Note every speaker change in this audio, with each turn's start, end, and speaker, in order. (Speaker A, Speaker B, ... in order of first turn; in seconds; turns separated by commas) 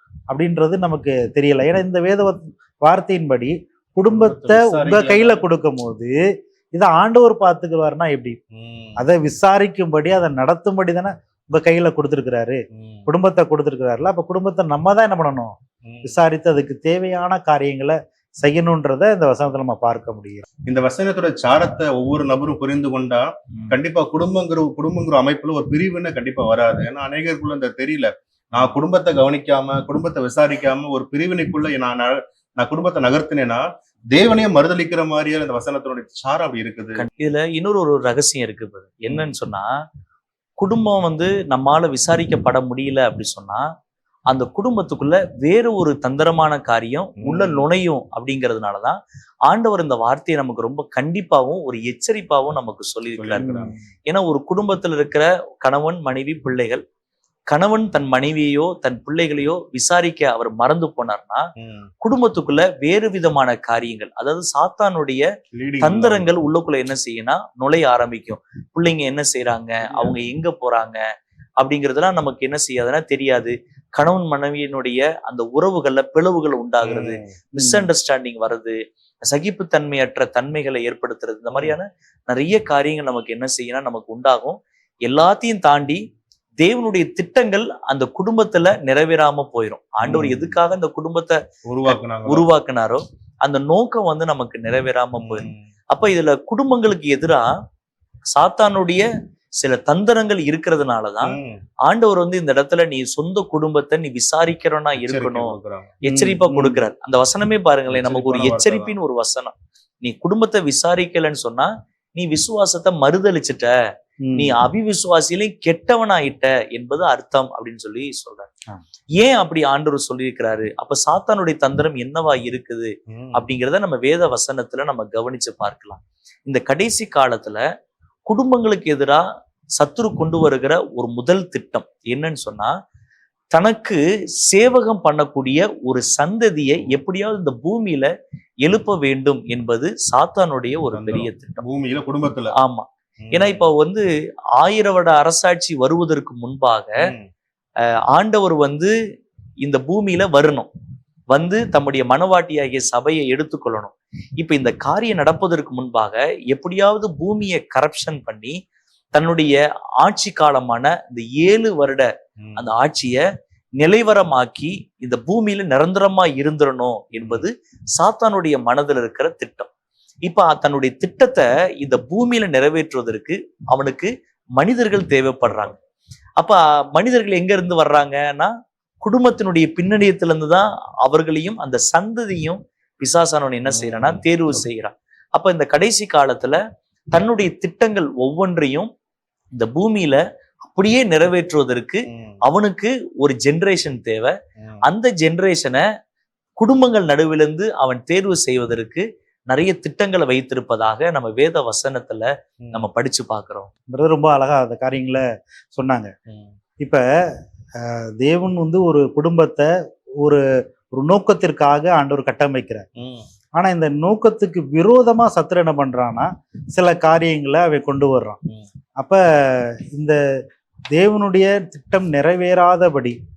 Speaker A: 0.3-6.1, Speaker B: 4.1-5.5, Speaker A: 6.7-8.4, Speaker B: 8.5-9.0, Speaker A: 9.0-20.4, Speaker B: 12.7-13.1, Speaker B: 15.8-16.1, Speaker B: 20.6-37.0, Speaker C: 37.0-39.7, Speaker C: 40.6-43.6, Speaker C: 44.3-56.8, Speaker B: 47.2-47.6, Speaker B: 53.2-53.7, Speaker A: 53.4-53.8, Speaker C: 57.5-61.5, Speaker B: 61.6-61.9, Speaker C: 62.0-65.2, Speaker B: 65.5-66.3, Speaker C: 65.8-71.0, Speaker B: 69.9-70.2, Speaker C: 71.6-86.0, Speaker B: 76.8-77.3, Speaker A: 77.6-77.9, Speaker C: 86.6-97.5, Speaker B: 90.1-90.6, Speaker B: 91.7-92.5, Speaker B: 95.2-95.6, Speaker C: 98.3-99.1, Speaker C: 99.6-113.7, Speaker B: 101.2-101.6, Speaker B: 105.1-106.0, Speaker A: 106.1-106.8, Speaker B: 107.9-108.9, Speaker A: 114.2-114.5, Speaker C: 114.3-118.5, Speaker C: 119.2-127.6, Speaker B: 123.1-123.4, Speaker C: 128.3-129.2, Speaker C: 129.8-132.7, Speaker C: 133.5-138.1, Speaker C: 138.6-141.6, Speaker B: 140.9-142.5, Speaker C: 142.6-144.0, Speaker B: 143.2-143.7, Speaker C: 144.6-147.0, Speaker B: 147.0-147.3, Speaker C: 148.1-148.9, Speaker C: 149.6-150.7, Speaker C: 151.3-158.5, Speaker C: 159.1-163.2, Speaker B: 162.4-162.7, Speaker C: 163.8-169.7, Speaker B: 167.2-167.5, Speaker C: 170.2-175.8, Speaker C: 176.4-186.6, Speaker B: 183.7-184.7, Speaker C: 187.1-188.9, Speaker C: 189.5-195.8, Speaker B: 192.1-192.4, Speaker C: 196.6-203.7, Speaker A: 203.9-205.2, Speaker A: 205.8-206.1, Speaker A: 207.8-209.7, Speaker A: 210.9-212.9, Speaker B: 213.0-213.3, Speaker A: 213.6-218.4, Speaker A: 219.0-220.2, Speaker A: 220.9-223.2